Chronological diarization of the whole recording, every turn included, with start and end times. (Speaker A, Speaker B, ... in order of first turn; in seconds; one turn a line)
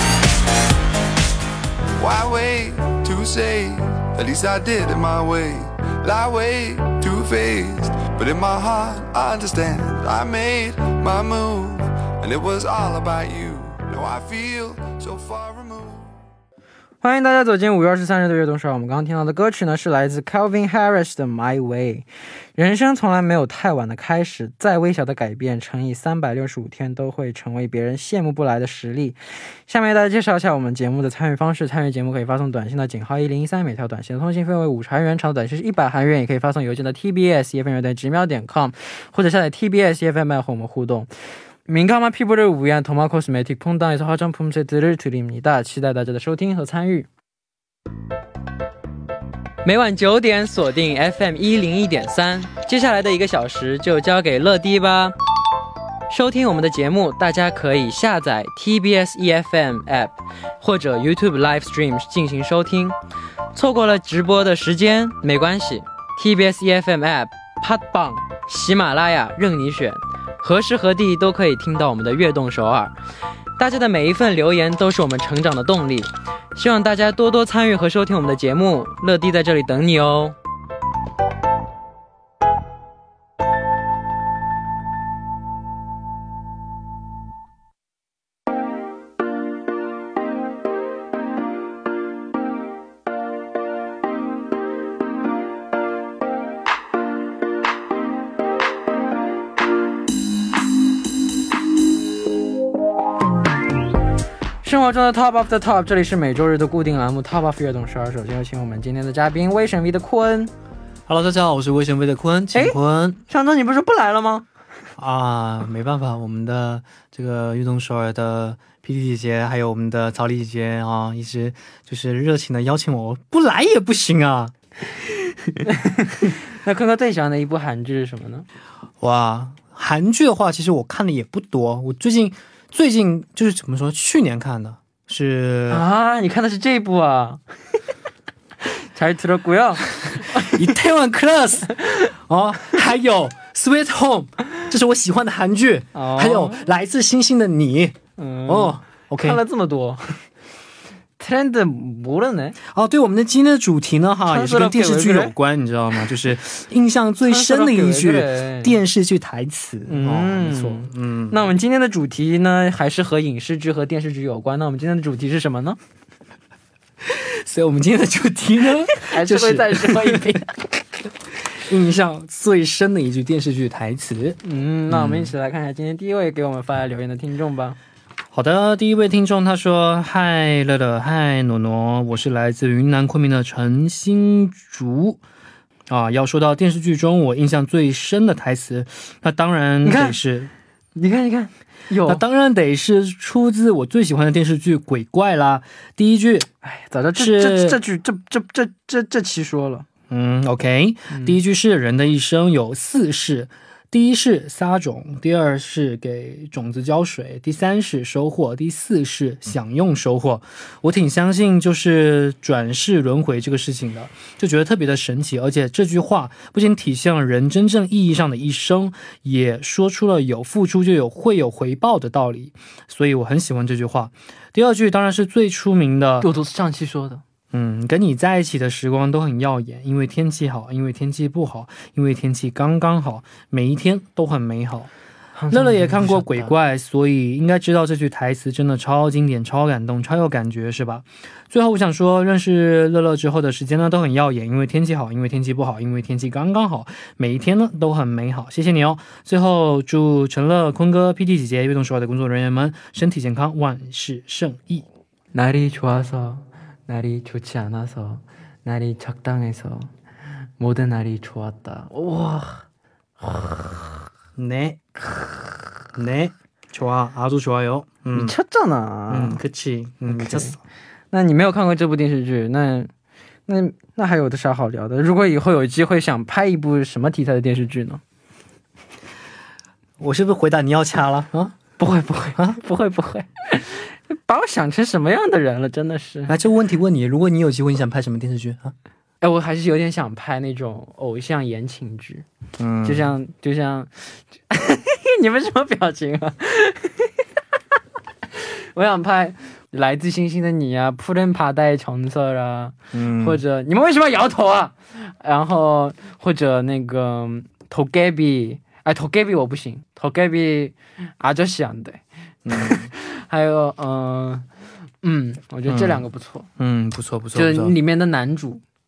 Speaker A: 2.0-16.1
Speaker B: 17.0-47.1
Speaker B: 49.6-55.1
Speaker B: 56.1-63.0
Speaker B: 63.5-73.0
Speaker B: 73.6-80.4
Speaker B: 104.6-110.5
Speaker C: 111.1-113.2
Speaker B: 112.5-114.5
Speaker C: 115.0-125.6
Speaker B: 125.7-128.5
Speaker C: 129.0-135.9
Speaker B: 135.7-137.4
Speaker B: 138.6-140.6
Speaker C: 140.2-149.4
Speaker B: 145.9-146.6
Speaker B: 148.2-150.3
Speaker B: 151.2-152.6
Speaker C: 152.6-161.5
Speaker B: 154.3-155.3
Speaker B: 157.2-158.8
Speaker B: 159.9-165.8
Speaker C: 167.0-170.4
Speaker B: 168.9-170.5
Speaker C: 171.4-175.3
Speaker B: 174.4-177.8
Speaker C: 178.3-185.2
Speaker C: 185.9-190.5
Speaker B: 189.8-190.2
Speaker B: 190.9-192.2
Speaker C: 192.1-196.5
Speaker B: 196.6-199.9
Speaker C: 197.2-197.8
Speaker C: 200.1-226.3
Speaker B: 201.1-201.4
Speaker B: 226.2-227.2
Speaker C: 227.5-234.9
Speaker B: 235.4-236.5
Speaker C: 235.5-254.9
Speaker B: 255.3-259.9
Speaker B: 260.6-262.7
Speaker B: 263.2-263.6
Speaker C: 264.4-264.8
Speaker C: 265.9-268.4
Speaker B: 268.1-269.4
Speaker C: 269.1-270.6
Speaker B: 270.1-270.6
Speaker B: 271.1-272.9
Speaker B: 273.5-278.0
Speaker C: 280.0-281.6
Speaker B: 281.8-286.3
Speaker C: 286.3-288.7
Speaker B: 289.2-292.3
Speaker C: 292.6-293.1
Speaker B: 292.8-297.1
Speaker B: 298.3-314.5
Speaker C: 302.9-303.4
Speaker C: 312.4-312.9
Speaker B: 315.0-316.5
Speaker C: 315.7-316.1
Speaker C: 316.6-317.8
Speaker B: 317.3-318.6